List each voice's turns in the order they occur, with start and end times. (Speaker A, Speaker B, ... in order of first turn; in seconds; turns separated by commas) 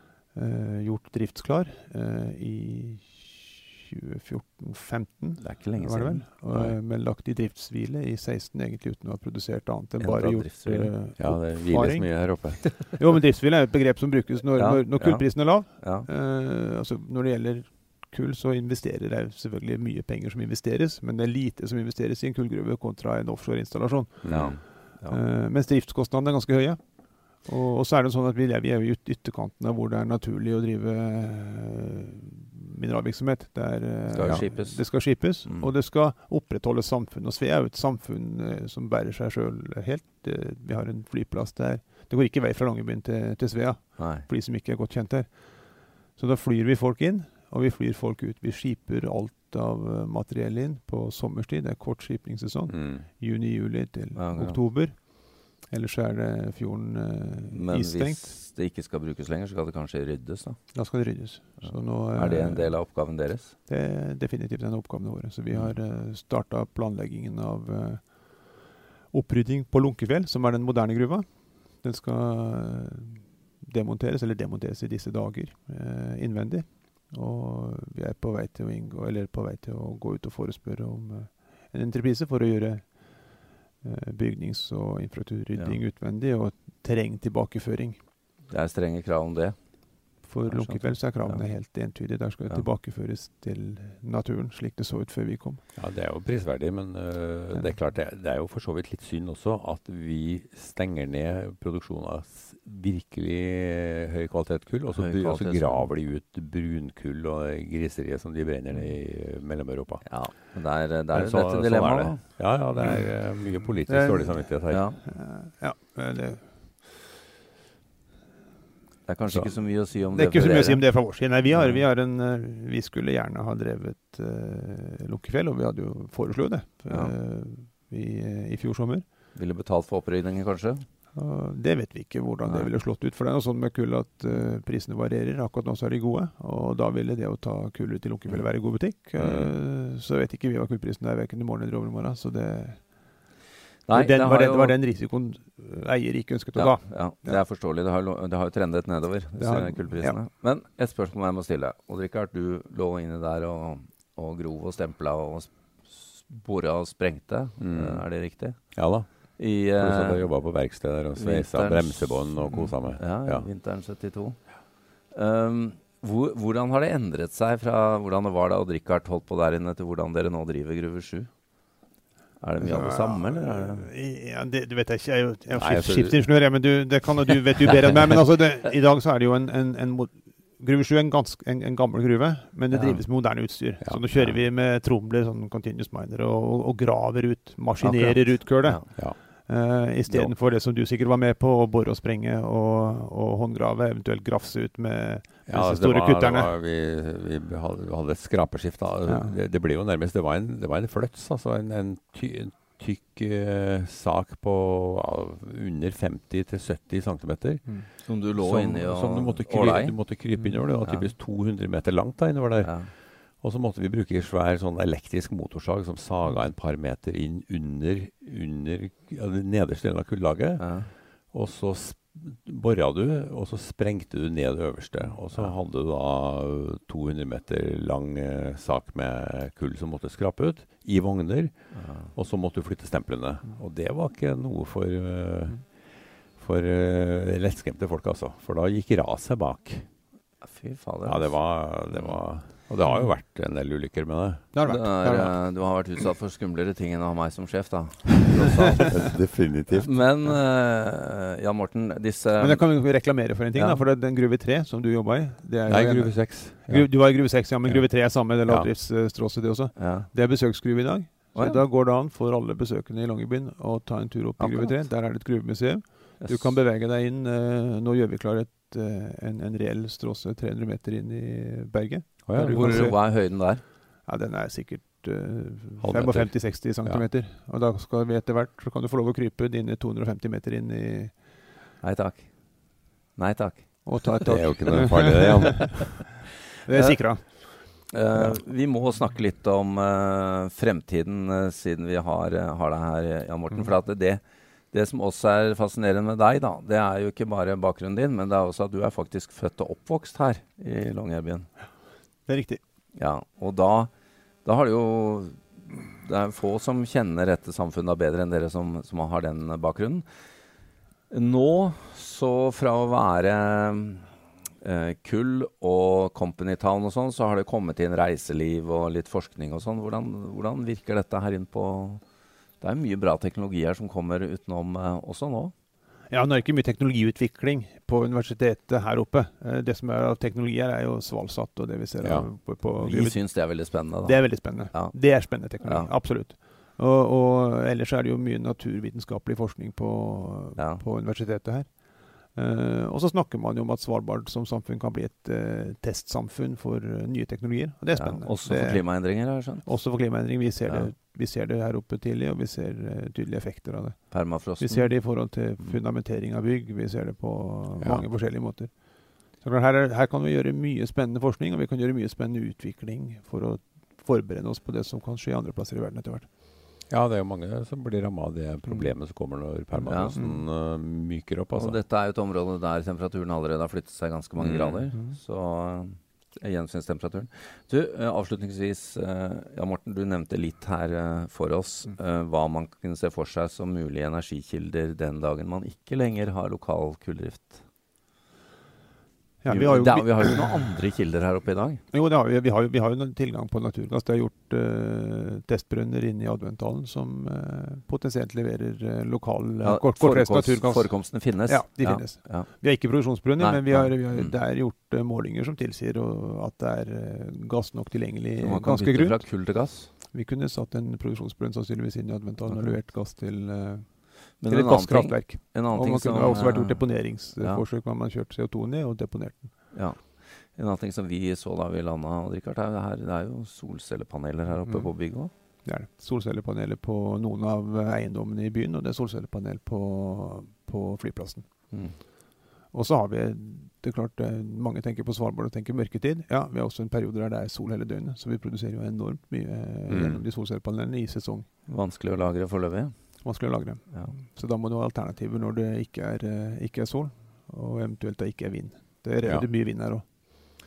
Speaker A: 0.3-58.4, Speaker B: 5.4-6.8, Speaker B: 10.0-10.9, Speaker C: 11.2-12.8, Speaker B: 14.5-16.1, Speaker C: 24.2-24.6, Speaker B: 24.3-25.2, Speaker B: 34.1-35.7, Speaker B: 44.0-44.3, Speaker C: 52.7-53.1, Speaker B: 54.1-54.7, Speaker B: 57.5-60.8, Speaker A: 60.7-88.1, Speaker B: 61.6-63.5, Speaker B: 88.5-92.7, Speaker A: 90.2-95.6, Speaker C: 95.8-110.5, Speaker A: 97.5-97.8, Speaker B: 104.9-105.9, Speaker B: 110.0-113.1, Speaker C: 111.1-114.9, Speaker A: 113.9-116.9, Speaker B: 114.7-115.0, Speaker B: 119.1-121.8, Speaker A: 119.8-129.1, Speaker B: 126.9-127.1, Speaker B: 129.3-130.9, Speaker A: 131.1-143.3, Speaker B: 132.4-132.7, Speaker C: 139.2-139.5, Speaker B: 143.9-144.8, Speaker A: 143.9-147.4, Speaker B: 146.6-171.6, Speaker A: 149.3-150.2, Speaker C: 157.6-163.5, Speaker B: 172.4-173.9, Speaker A: 172.6-196.6, Speaker C: 175.5-176.3, Speaker B: 182.7-183.6, Speaker B: 187.8-188.9, Speaker C: 188.3-189.2, Speaker C: 189.9-190.3, Speaker C: 195.5-239.9, Speaker A: 199.1-199.4, Speaker B: 208.1-211.2, Speaker A: 210.3-210.6, Speaker B: 212.6-212.9, Speaker B: 220.6-220.9, Speaker B: 225.0-225.5, Speaker B: 231.7-232.1, Speaker B: 240.4-242.2, Speaker C: 241.0-244.5, Speaker A: 242.8-243.1, Speaker A: 244.5-245.8, Speaker B: 244.6-253.8, Speaker C: 248.9-250.1, Speaker A: 252.4-281.4, Speaker C: 255.7-256.9, Speaker B: 256.7-257.1, Speaker B: 257.7-258.8, Speaker B: 259.7-260.1, Speaker B: 261.3-261.6, Speaker B: 264.4-264.9, Speaker B: 266.2-266.6, Speaker C: 272.3-272.9, Speaker B: 272.4-273.6, Speaker C: 275.8-277.1, Speaker B: 281.8-284.2, Speaker A: 283.8-285.9, Speaker C: 284.3-286.1, Speaker A: 286.4-288.4, Speaker B: 287.2-301.5, Speaker A: 302.3-302.6, Speaker B: 302.9-303.9, Speaker B: 304.4-310.1, Speaker B: 311.1-322.0, Speaker B: 322.6-325.5, Speaker A: 326.1-366.3, Speaker C: 332.0-332.3, Speaker B: 332.8-335.9, Speaker B: 340.6-340.8, Speaker B: 347.9-349.9, Speaker B: 350.6-350.9, Speaker B: 354.1-355.8, Speaker C: 357.8-358.1, Speaker C: 366.9-371.8, Speaker A: 368.6-369.1, Speaker A: 369.7-370.5, Speaker B: 369.9-370.2, Speaker B: 371.6-387.6, Speaker C: 374.4-374.9, Speaker A: 374.9-375.2, Speaker A: 389.4-390.6, Speaker B: 389.5-391.8, Speaker A: 391.9-419.6, Speaker B: 399.6-404.4, Speaker B: 408.4-409.9, Speaker B: 412.5-412.8, Speaker B: 414.4-417.6, Speaker B: 419.7-425.3, Speaker A: 424.6-432.0, Speaker B: 431.7-432.0, Speaker A: 432.7-441.7, Speaker C: 439.9-440.2, Speaker B: 441.7-444.1, Speaker A: 443.2-450.0